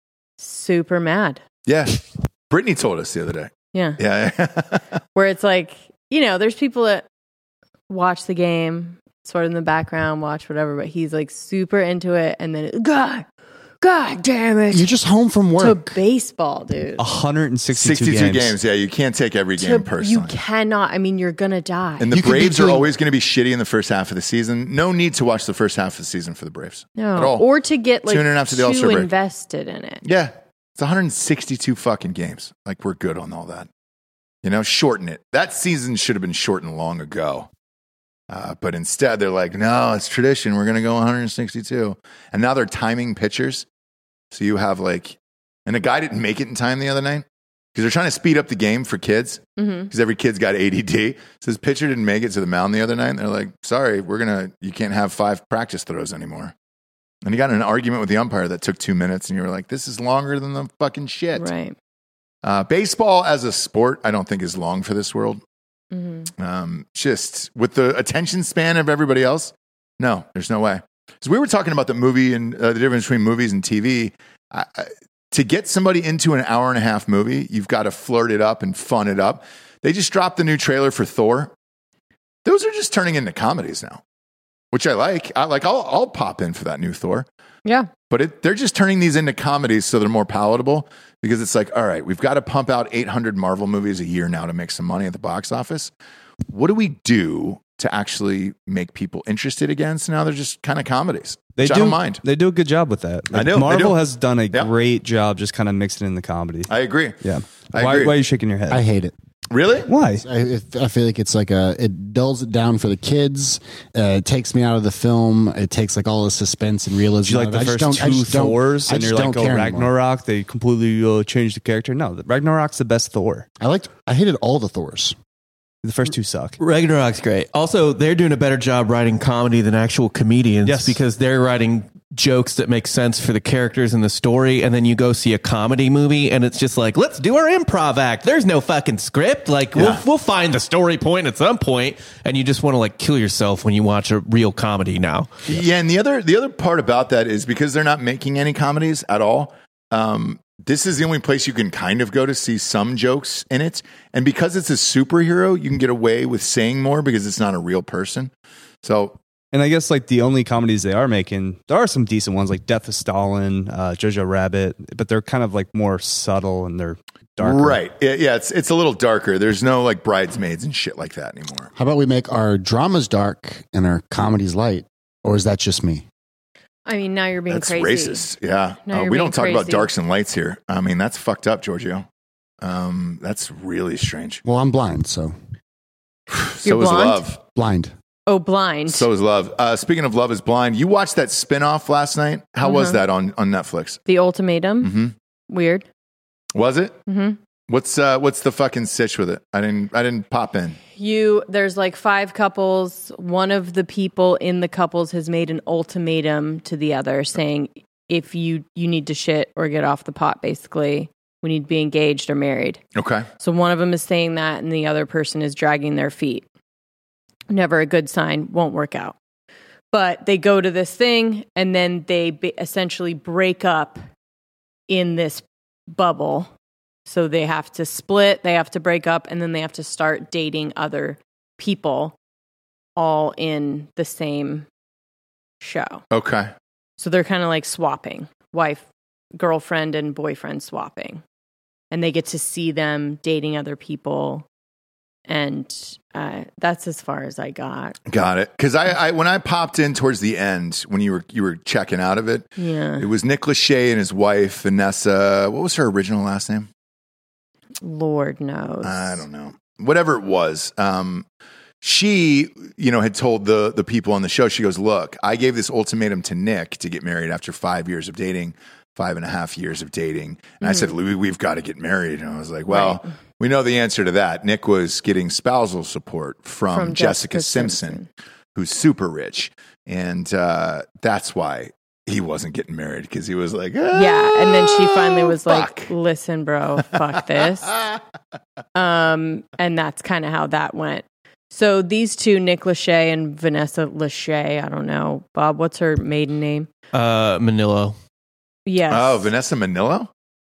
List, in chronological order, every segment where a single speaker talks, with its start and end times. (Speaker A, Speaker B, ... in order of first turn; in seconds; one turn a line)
Speaker A: 0.4-1.4
Speaker B: 1.6-4.8
Speaker A: 3.7-4.0
Speaker A: 5.1-7.0
Speaker A: 7.9-13.2
Speaker A: 13.8-14.9
Speaker C: 14.7-15.9
Speaker A: 15.6-17.1
Speaker D: 17.0-18.6
Speaker B: 17.7-20.4
Speaker A: 19.6-22.1
Speaker B: 22.0-27.4
Speaker C: 22.1-22.9
Speaker A: 27.0-30.0
Speaker B: 28.1-29.1
Speaker B: 30.0-33.7
Speaker B: 34.4-37.5
Speaker B: 38.3-43.6
Speaker B: 44.3-56.5
Speaker A: 49.6-49.9
Speaker B: 57.2-61.5
Speaker A: 61.4-61.7
Speaker B: 62.4-65.4
Speaker A: 65.9-66.3
Speaker B: 66.4-81.5
Speaker B: 82.4-84.0
Speaker B: 84.7-87.2
Speaker A: 87.6-87.9
Speaker B: 88.1-95.9
Speaker B: 96.5-102.2
Speaker D: 101.5-106.7
Speaker B: 103.3-104.0
Speaker B: 106.7-107.2
Speaker D: 107.2-108.8
Speaker B: 107.7-108.2
Speaker C: 108.7-109.1
Speaker B: 109.5-109.9
Speaker D: 109.9-110.2
Speaker C: 110.1-119.9
Speaker D: 117.2-123.5
Speaker C: 123.6-125.2
Speaker D: 125.8-126.6
Speaker E: 126.6-145.4
Speaker D: 130.6-131.0
Speaker B: 139.7-140.0
Speaker B: 145.5-158.3
Speaker B: 158.8-159.2
Speaker D: 159.5-167.8
Speaker B: 167.4-171.7
Speaker C: 171.7-176.0
Speaker A: 176.8-178.3
Speaker B: 177.5-182.1
Speaker A: 178.9-179.9
Speaker B: 182.6-184.4
Speaker C: 184.4-185.3
Speaker B: 186.3-187.4
Speaker A: 186.6-187.2
Speaker C: 187.5-187.9
Speaker A: 188.3-189.1
Speaker B: 188.9-194.0
Speaker A: 192.6-193.0
Speaker A: 194.1-194.9
Speaker B: 194.8-195.1
Speaker A: 195.5-195.8
Speaker B: 196.5-197.0
Speaker A: 197.1-197.4
Speaker B: 197.7-200.8
Speaker A: 200.9-212.8
Speaker B: 212.9-213.3
Speaker A: 213.4-216.4
Speaker A: 217.5-219.2
Speaker A: 219.9-224.0
Speaker A: 224.9-226.5
Speaker A: 227.1-232.1
Speaker A: 232.9-234.7
Speaker A: 235.6-236.0
Speaker B: 236.1-236.5
Speaker A: 237.0-241.2
Speaker A: 241.9-244.4
Speaker A: 245.3-248.0
Speaker B: 248.1-256.7
Speaker A: 252.6-253.1
Speaker A: 257.8-259.2
Speaker B: 258.8-261.2
Speaker B: 261.8-278.0
Speaker A: 270.6-270.9
Speaker A: 272.7-273.1
Speaker A: 276.7-278.1
Speaker B: 278.5-285.9
Speaker A: 283.9-287.7
Speaker B: 287.7-287.9
Speaker A: 288.7-296.7
Speaker E: 296.9-297.9
Speaker A: 298.6-299.3
Speaker B: 298.9-300.1